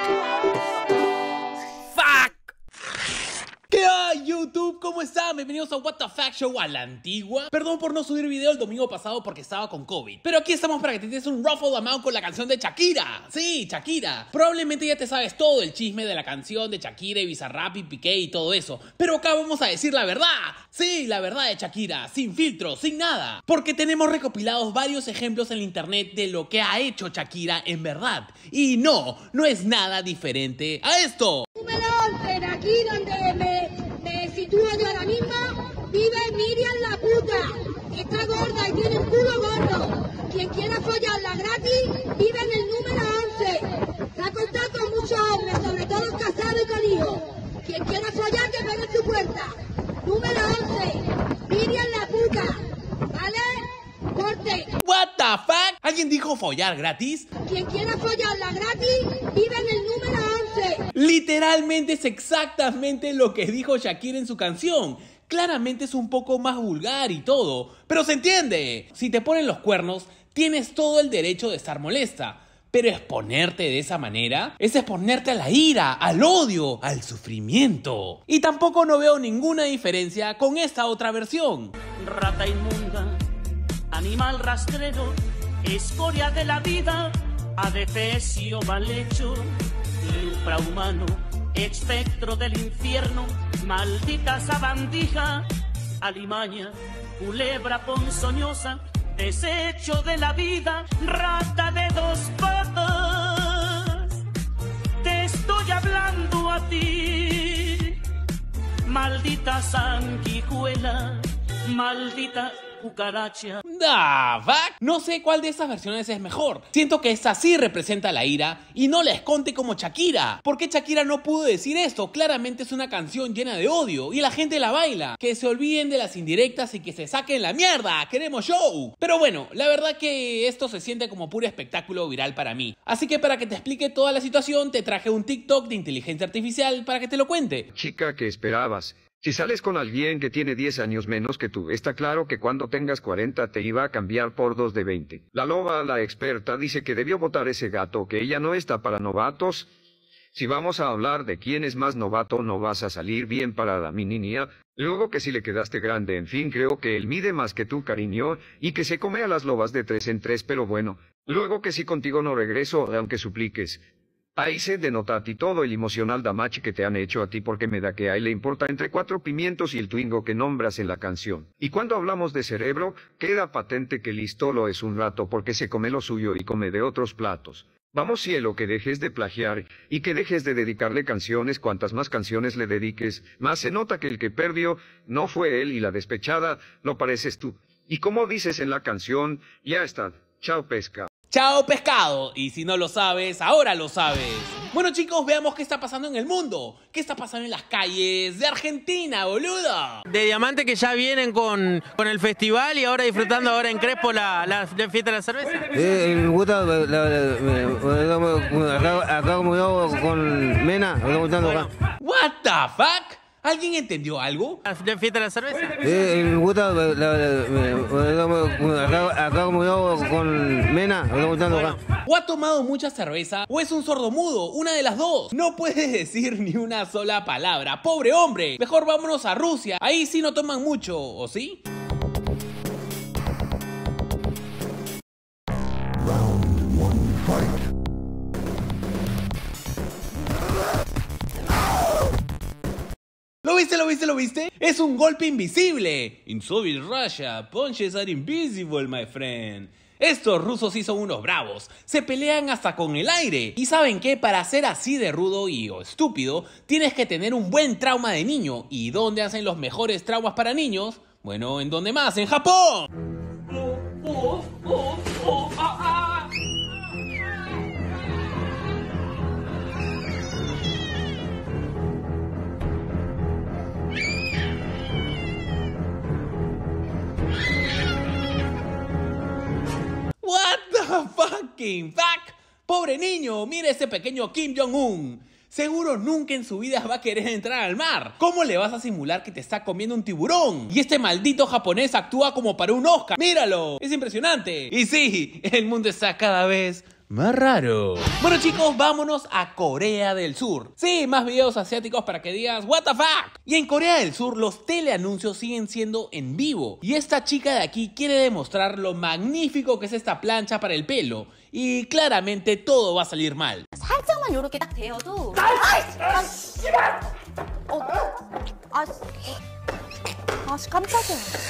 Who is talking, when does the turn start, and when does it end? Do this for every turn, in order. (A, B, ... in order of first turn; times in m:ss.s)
0:01.9-0:02.4 A
0:03.7-0:31.5 A
0:31.6-0:52.6 B
0:53.1-0:54.7 B
0:54.8-0:57.3 A
0:57.4-1:00.8 B
1:00.9-1:21.7 A
1:22.0-1:23.2 C
1:23.9-1:29.5 C
1:30.0-1:35.5 C
1:36.0-1:44.2 C
1:45.0-1:48.0 C
1:48.8-1:53.6 C
1:53.6-2:17.7 A
2:17.7-2:29.7 D
2:30.3-2:43.8 D
2:44.4-3:11.1 D
3:11.3-3:20.0 A
3:20.1-3:25.7 E
3:25.7-3:31.7 F
3:32.0-3:34.6 A
3:34.6-3:35.8 E
3:35.8-3:41.8 F
3:41.9-3:51.6 A
4:03.4-4:22.9 A
4:40.2-5:13.7 A
5:13.8-5:15.4 G
5:15.9-5:16.3 G
5:20.5-5:21.3 G